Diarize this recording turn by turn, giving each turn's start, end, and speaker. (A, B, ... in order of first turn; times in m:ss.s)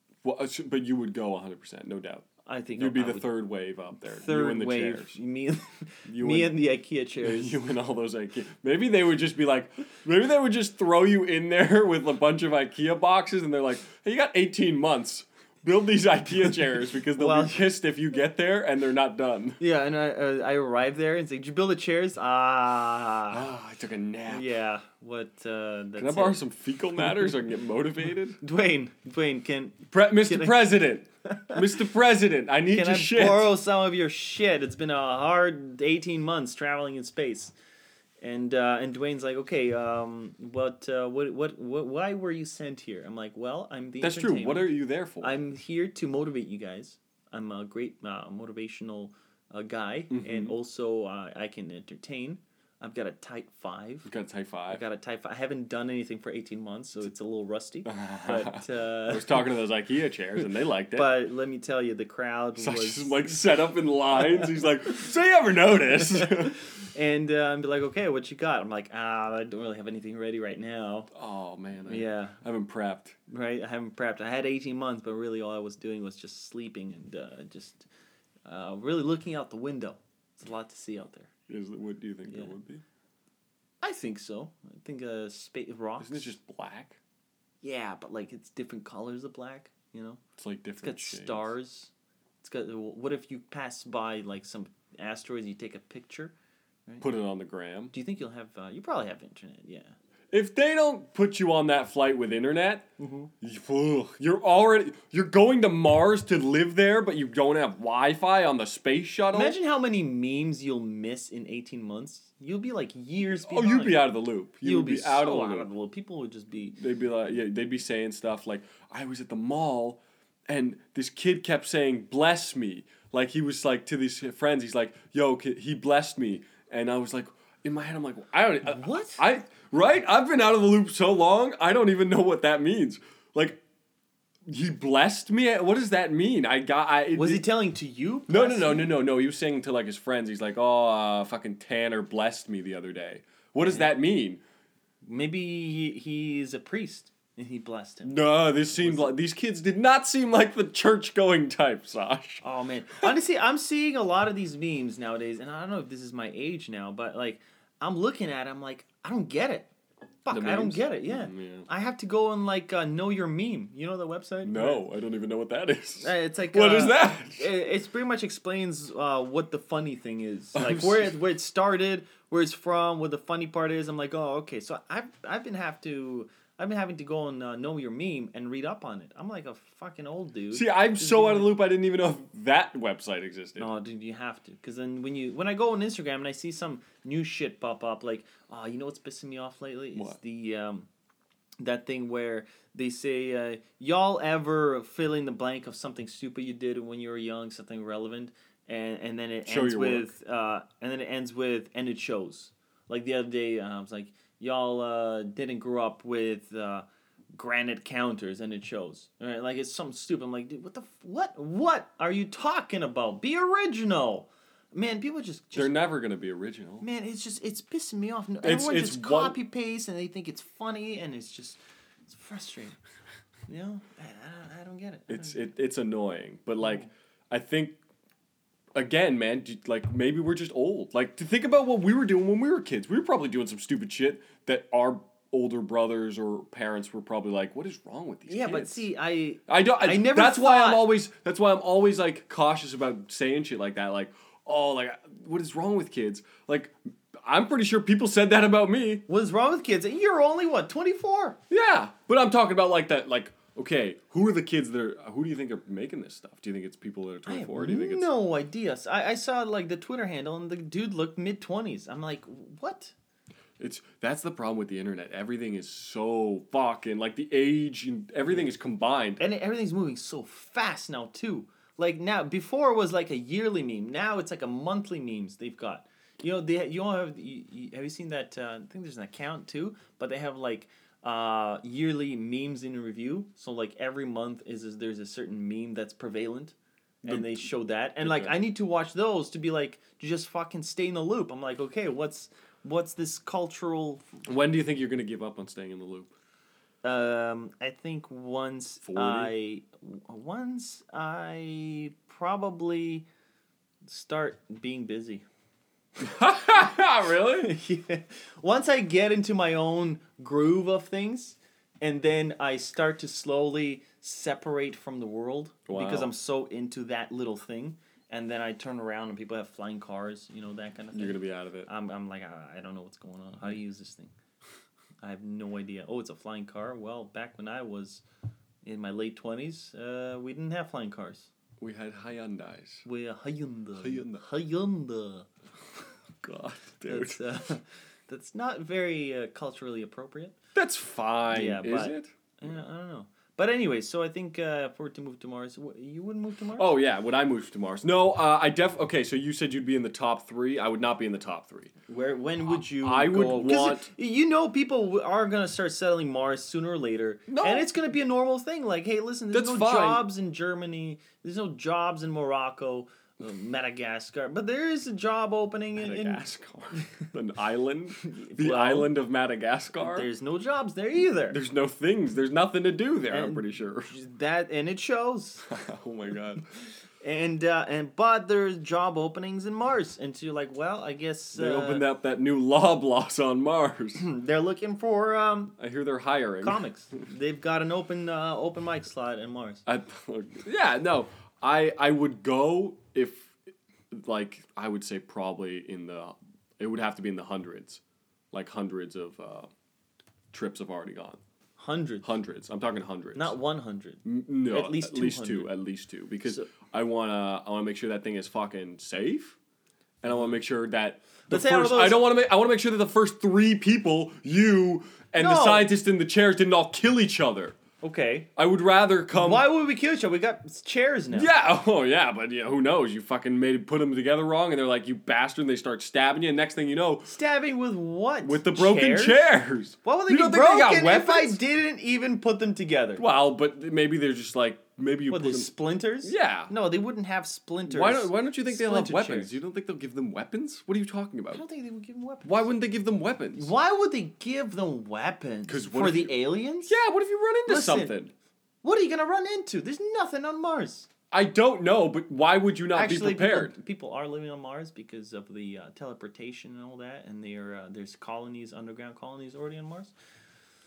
0:00.2-0:05.2 A
0:02.4-0:03.3 B
0:04.0-0:07.6 B
0:06.1-0:06.6 A
0:07.2-0:19.6 A
0:17.1-0:17.6 B
0:19.6-0:23.4 B
0:23.3-0:24.5 A
0:24.3-0:26.4 B
0:26.0-0:28.4 A
0:27.0-0:27.3 B
0:28.4-0:30.7 B
0:29.9-0:33.5 A
0:31.3-0:31.8 B
0:32.7-0:37.5 B
0:38.2-0:54.1 B
0:44.0-0:45.4 A
0:50.1-0:50.6 A
0:54.0-0:54.8 A
0:54.7-0:59.5 B
0:57.8-1:01.1 A
1:00.9-1:03.3 B
1:02.6-1:06.6 A
1:04.2-1:04.7 B
1:06.0-1:11.1 B
1:11.1-1:13.2 A
1:11.9-1:12.4 B
1:13.3-1:17.9 B
1:18.4-1:21.3 B
1:21.5-1:22.8 A
1:23.8-1:26.3 B
1:26.0-1:27.0 A
1:27.6-1:30.2 B
1:30.4-1:31.5 A
1:30.8-1:36.3 B
1:37.0-1:37.9 A
1:37.9-1:40.0 B
1:40.3-1:42.9 A
1:43.0-1:43.3 B
1:43.4-1:49.6 A
1:49.3-1:54.0 B
1:53.4-1:55.7 A
1:54.6-1:56.8 B
1:56.8-2:13.6 A
2:08.6-2:09.2 B
2:14.5-2:17.4 A
2:17.1-2:18.9 B
2:18.3-2:24.4 A
2:23.6-2:23.9 B
2:25.0-2:29.2 B
2:28.0-2:32.4 A
2:32.4-2:39.7 B
2:40.2-2:44.8 B
2:40.3-2:41.7 A
2:44.4-2:47.5 A
2:46.0-3:01.6 B
2:50.6-2:51.1 A
3:00.5-3:03.7 A
3:03.6-3:10.9 B
3:11.6-3:35.8 B
3:19.5-3:20.1 A
3:35.5-3:36.8 A
3:36.8-3:42.8 B
3:38.4-3:39.4 A
3:43.5-3:45.5 B
3:45.1-3:47.8 A
3:46.6-3:46.9 B
3:48.8-3:58.9 A
3:58.3-4:00.9 B
3:59.5-4:09.0 A
4:09.1-4:11.4 B
4:11.5-4:18.1 A
4:17.3-4:22.9 B
4:23.6-4:29.2 A
4:29.2-4:46.6 B
4:47.0-4:47.5 A
4:47.1-4:54.1 B
4:48.0-4:48.4 A
4:54.2-4:56.1 A
4:56.8-5:03.1 B
4:58.8-4:59.3 A
5:03.9-5:05.3 B
5:06.0-5:07.5 A
5:07.4-5:24.1 B
5:15.7-5:16.1 A
5:20.9-5:21.7 A
5:25.0-5:28.0 B
5:28.6-5:31.3 B
5:31.6-5:32.8 A
5:32.8-5:35.3 B
5:33.8-5:34.2 A
5:36.2-5:37.2 A
5:36.8-5:40.4 B
5:40.6-5:42.1 A
5:41.3-5:46.7 B
5:46.6-5:51.7 A
5:51.9-6:06.2 B
5:52.8-5:53.9 A
5:57.3-5:57.7 A
5:59.3-6:00.0 A
6:05.8-6:10.1 A
6:08.0-6:08.9 B
6:09.8-6:11.4 B
6:11.3-6:14.0 A
6:13.1-6:15.4 B
6:15.4-6:16.5 A
6:17.0-6:21.8 B
6:21.4-6:24.0 A
6:24.0-6:25.6 B
6:25.6-6:26.6 A
6:26.4-6:29.6 B
6:29.7-6:33.4 A
6:33.9-6:37.8 A
6:38.3-6:39.5 A
6:40.3-6:41.2 A
6:41.6-6:42.1 B
6:42.0-6:43.4 A
6:43.2-6:45.5 B
6:44.0-6:49.4 A
6:50.0-6:57.6 A
6:51.3-6:52.0 B
6:55.2-6:55.7 B
6:57.8-6:58.3 B
6:58.4-6:59.4 A
6:59.1-7:01.3 B
7:01.1-7:07.1 A
7:07.1-7:09.2 B
7:08.2-7:11.4 A
7:09.8-7:13.0 B
7:13.0-7:15.5 A
7:15.1-7:19.4 B
7:16.0-7:16.5 A
7:17.7-7:21.4 A
7:21.3-7:22.5 B
7:22.2-7:23.5 A
7:23.4-7:26.8 B
7:25.5-7:28.1 A
7:27.5-7:27.9 B
7:28.6-7:30.9 B
7:31.1-7:33.6 A
7:32.7-7:39.9 B